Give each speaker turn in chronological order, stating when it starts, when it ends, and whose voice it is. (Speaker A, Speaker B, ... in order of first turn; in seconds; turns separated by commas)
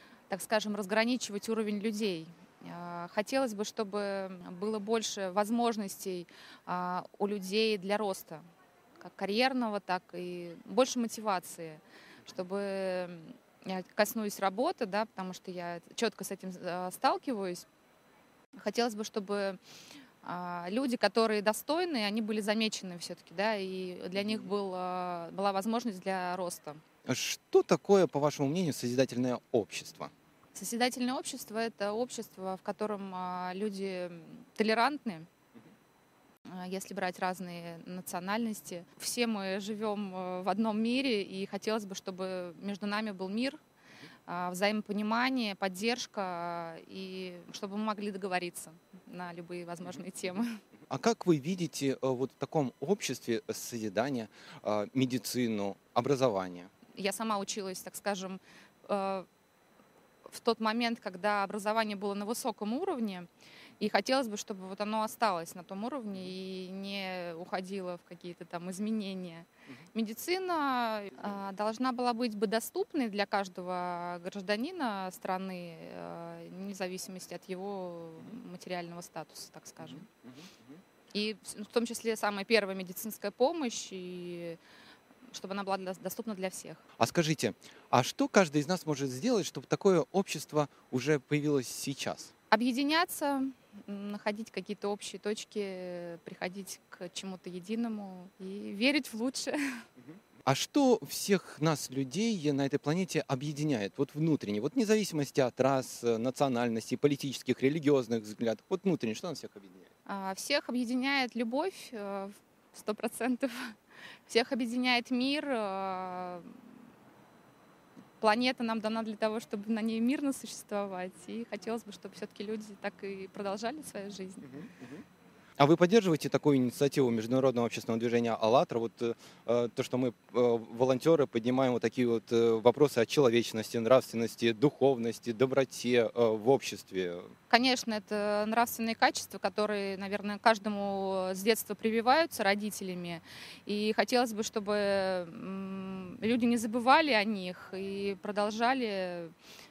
Speaker A: 0.3-8.4, Speaker A: 9.0-17.7, Speaker A: 18.6-19.6, Speaker A: 20.2-26.8, Speaker B: 27.1-30.1, Speaker A: 30.5-35.3, Speaker A: 36.5-43.6, Speaker A: 44.3-50.6, Speaker B: 50.9-56.7, Speaker A: 56.9-59.3, Speaker A: 60.3-63.3, Speaker A: 63.8-80.1, Speaker A: 81.1-84.6, Speaker A: 85.3-86.8, Speaker B: 87.0-92.3, Speaker A: 92.5-99.8, Speaker B: 100.5-109.9, Speaker A: 110.1-113.7, Speaker A: 114.3-116.6, Speaker A: 118.2-124.6, Speaker B: 124.5-125.0, Speaker B: 125.6-137.3, Speaker A: 137.5-149.3